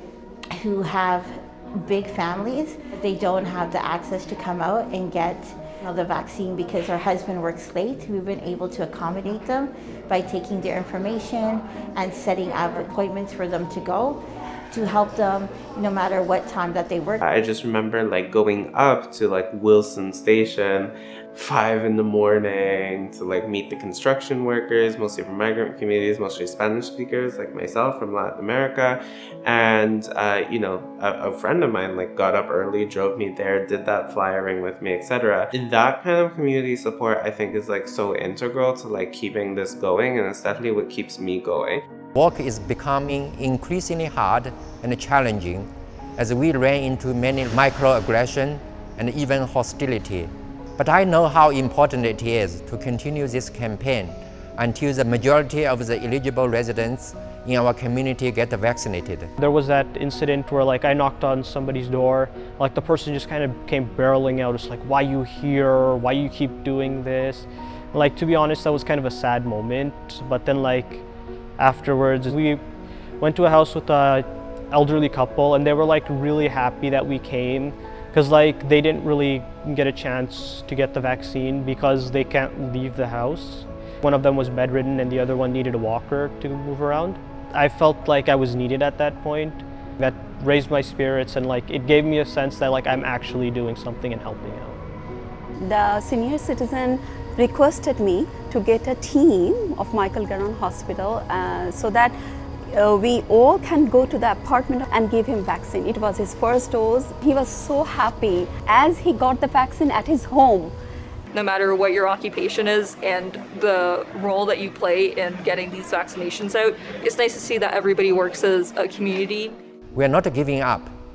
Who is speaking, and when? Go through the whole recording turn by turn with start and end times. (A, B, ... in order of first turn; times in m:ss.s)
0:00.5-0:14.2 A
0:14.7-0:17.2 A
0:17.2-0:41.8 B
0:42.1-0:59.3 C
0:59.4-1:11.0 D
1:11.6-1:12.6 D
1:13.2-1:34.8 D
1:35.6-1:42.1 E
1:42.7-1:50.7 E
1:51.3-1:59.5 F
1:59.9-2:00.9 C